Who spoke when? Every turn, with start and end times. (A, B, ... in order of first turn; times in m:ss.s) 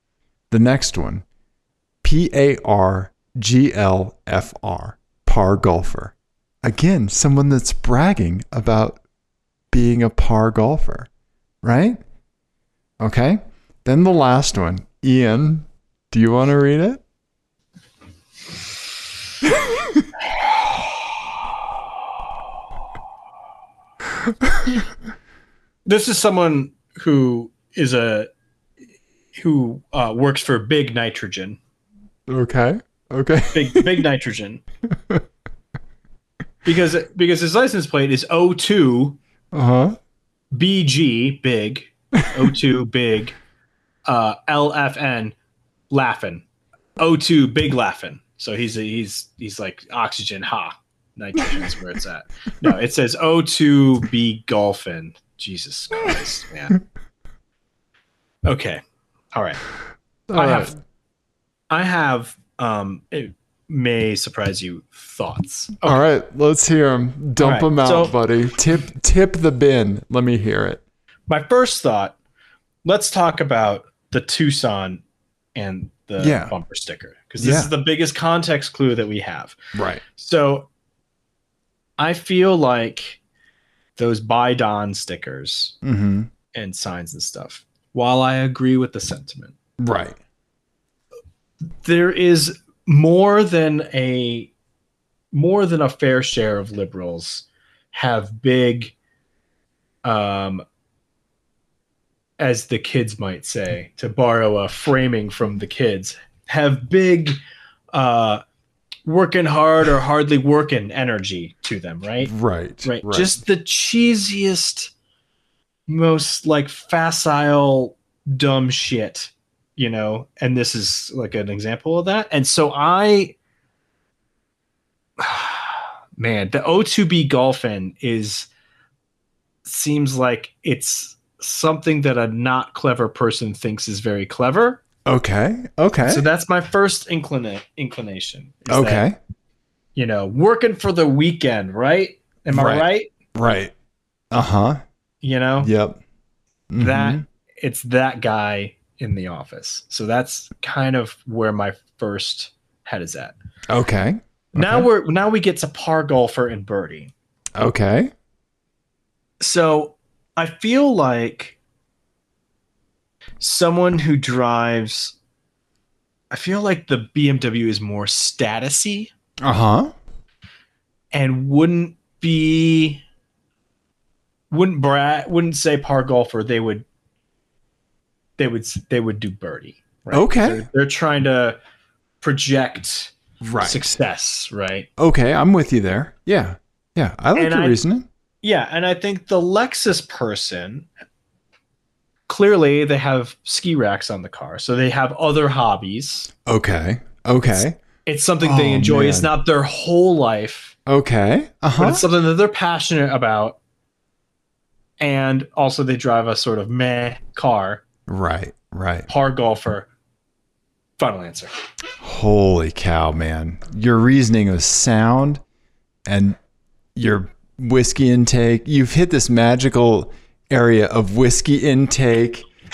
0:00.5-0:01.2 A
0:02.0-0:09.0 A
0:09.7-0:11.1 A
0:11.6-0:12.0 A
0:13.0-0:17.0 A
0:19.4-0:20.0 A
0:24.3-0:24.8 A
0:25.8-0:28.3 B
0:29.3-0:31.6 B
0:32.3-0:34.0 A
0:33.5-0:34.6 B
0:34.9-0:35.2 A
0:36.6-0:39.2 B
0:39.5-0:40.0 A
0:40.5-0:43.4 B
0:44.1-0:45.3 B
0:45.9-0:46.4 B
0:47.0-0:56.8 B
0:58.4-0:58.8 B
0:59.3-0:59.6 B
1:00.3-1:00.7 A
1:00.3-1:00.7 B
1:01.7-1:06.0 B
1:05.8-1:10.8 A
1:07.4-1:08.1 B
1:11.3-1:12.2 B
1:12.8-1:15.0 B
1:15.5-1:19.6 B
1:16.2-1:16.5 A
1:17.4-1:17.7 A
1:19.7-1:20.0 A
1:20.1-1:20.7 B
1:22.0-1:23.2 B
1:24.0-1:25.8 B
1:25.8-1:26.3 A
1:26.5-1:29.5 B
1:29.8-1:30.2 A
1:31.8-1:34.5 B
1:35.3-1:38.9 B
1:40.0-1:40.6 B
1:42.4-1:47.4 B
1:47.9-1:48.4 B
1:49.0-1:52.3 B
1:52.2-1:53.4 A
1:52.8-1:54.9 B
1:55.9-2:03.4 B
2:05.2-2:08.5 B
2:09.6-2:14.8 B
2:15.0-2:16.2 A
2:16.0-2:19.0 B
2:18.7-2:19.2 A
2:20.0-2:23.1 B
2:22.5-2:23.7 A
2:24.3-2:24.8 A
2:25.2-2:25.7 B
2:25.6-2:26.0 A
2:26.7-2:27.2 A
2:26.8-2:33.3 B
2:33.7-2:34.9 A
2:34.5-2:37.1 B
2:37.6-2:38.1 A
2:39.4-2:41.6 B
2:43.4-2:45.2 B
2:46.3-2:49.1 B
2:49.4-2:49.9 A
2:51.1-2:53.0 B
2:54.5-2:56.8 B
2:58.4-3:01.6 B
3:00.1-3:00.6 A
3:02.2-3:04.9 B
3:03.4-3:03.8 A
3:05.0-3:08.0 A
3:07.3-3:07.8 B
3:08.4-3:10.9 B
3:12.3-3:16.3 B
3:16.4-3:17.8 A
3:18.0-3:20.8 B
3:18.4-3:19.3 A
3:20.8-3:22.0 A
3:21.8-3:23.6 B
3:25.0-3:27.8 B
3:28.1-3:29.1 A
3:29.1-3:29.9 B
3:31.0-3:31.5 B
3:32.0-3:35.4 A
3:36.1-3:36.4 A
3:37.0-3:42.5 A